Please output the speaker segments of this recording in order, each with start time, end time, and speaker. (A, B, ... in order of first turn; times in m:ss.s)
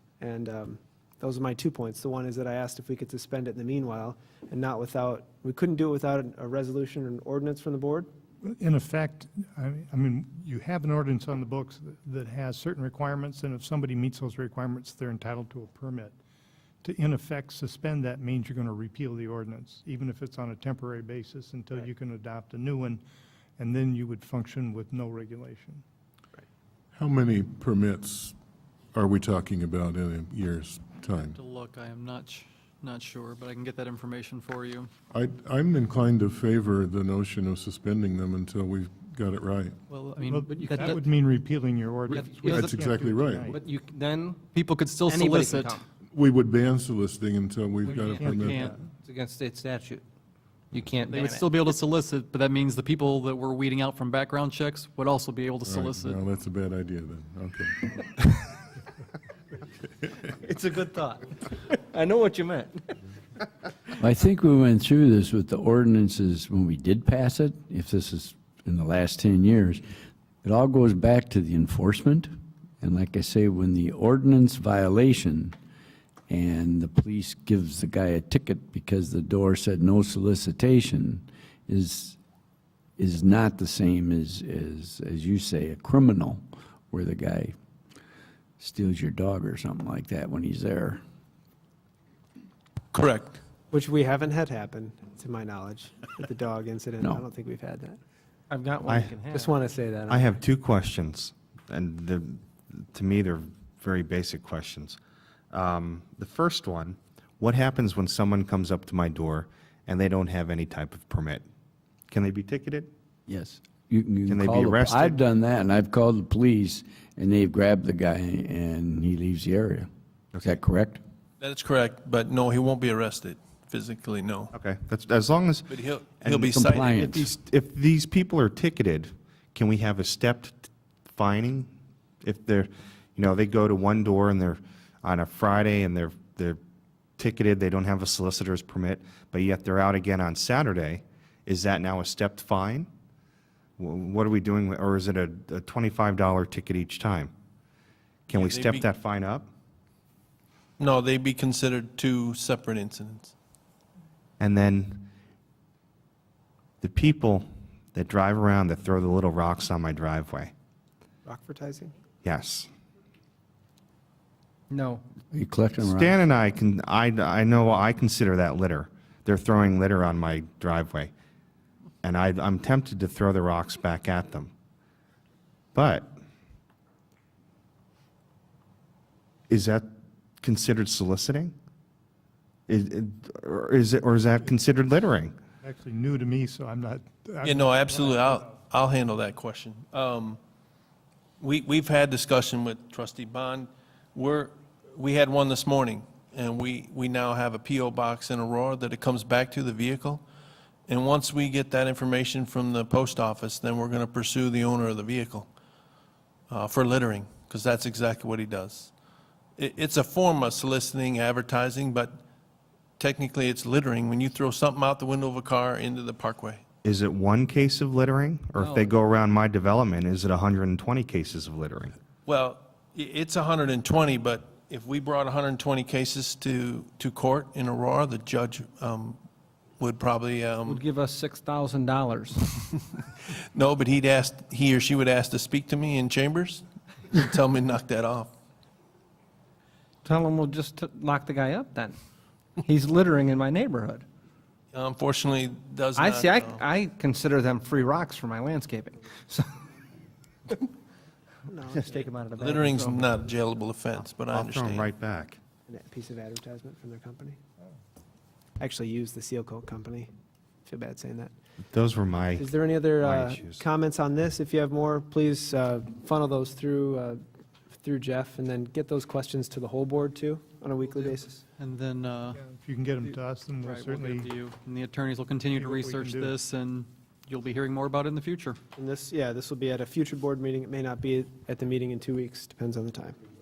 0:00.2-0:08.1 A
0:08.4-0:16.2 B
0:16.8-0:23.0 B
0:23.6-0:25.8 B
0:26.9-0:28.4 C
0:28.9-0:31.4 C
0:31.3-0:34.9 D
0:35.1-0:39.8 C
0:39.9-0:41.0 D
0:40.2-0:43.6 B
0:42.1-0:42.8 D
0:42.1-0:42.6 E
0:42.5-0:43.5 C
0:43.5-0:44.5 E
0:44.5-0:45.8 D
0:45.0-0:45.8 E
0:46.1-0:48.7 C
0:47.8-0:48.5 B
0:48.1-0:50.0 E
0:48.3-0:48.8 D
0:50.7-0:51.8 E
0:51.1-0:56.2 D
0:55.6-0:58.4 C
1:00.4-1:02.9 E
1:04.0-1:09.8 F
1:10.4-1:15.6 F
1:16.3-1:22.2 F
1:23.0-1:27.6 F
1:28.6-1:31.0 F
1:32.9-1:33.4 G
1:33.7-1:38.0 A
1:38.5-1:39.6 E
1:39.3-1:40.4 A
1:40.1-1:45.0 H
1:45.5-1:51.4 H
1:52.1-1:52.9 H
1:53.3-2:01.0 F
1:54.3-1:55.2 H
2:01.4-2:04.5 G
2:04.5-2:05.7 H
2:05.7-2:06.9 G
2:06.2-2:11.7 H
2:06.5-2:07.3 F
2:12.2-2:16.6 H
2:17.2-2:22.9 H
2:23.8-2:27.3 H
2:28.3-2:29.5 H
2:28.3-2:28.9 G
2:30.8-2:33.3 G
2:34.4-2:35.1 H
2:36.8-2:40.5 H
2:41.2-2:41.9 A
2:42.2-2:42.7 H
2:44.7-2:45.0 E
2:45.3-2:46.2 F
2:45.8-2:51.1 H
2:52.0-2:54.5 H
2:55.8-2:56.1 H
2:59.5-2:59.9 H
3:00.4-3:01.5 H
3:02.7-3:05.3 H
3:05.6-3:08.5 B
3:07.4-3:10.4 G
3:11.4-3:20.2 G
3:20.9-3:25.5 G
3:26.5-3:28.9 G
3:29.6-3:32.2 G
3:33.0-3:36.6 G
3:36.8-3:41.9 H
3:38.6-3:38.9 E
3:42.2-3:49.2 G
3:49.8-3:50.8 G
3:50.7-3:52.4 E
3:53.5-3:58.3 G
4:00.0-4:02.0 E
4:02.6-4:04.0 E
4:04.7-4:06.6 G
4:05.9-4:09.5 E
4:11.5-4:12.1 A
4:11.7-4:13.2 E
4:12.4-4:14.9 G
4:14.3-4:15.4 H
4:15.7-4:17.4 A
4:18.6-4:20.1 A
4:20.7-4:21.3 A
4:21.7-4:22.5 H
4:22.4-4:27.2 A
4:23.0-4:23.6 H
4:27.8-4:31.4 A
4:31.6-4:32.4 D
4:32.3-4:34.3 B
4:33.6-4:38.6 D
4:35.5-4:36.4 B
4:38.8-4:43.2 A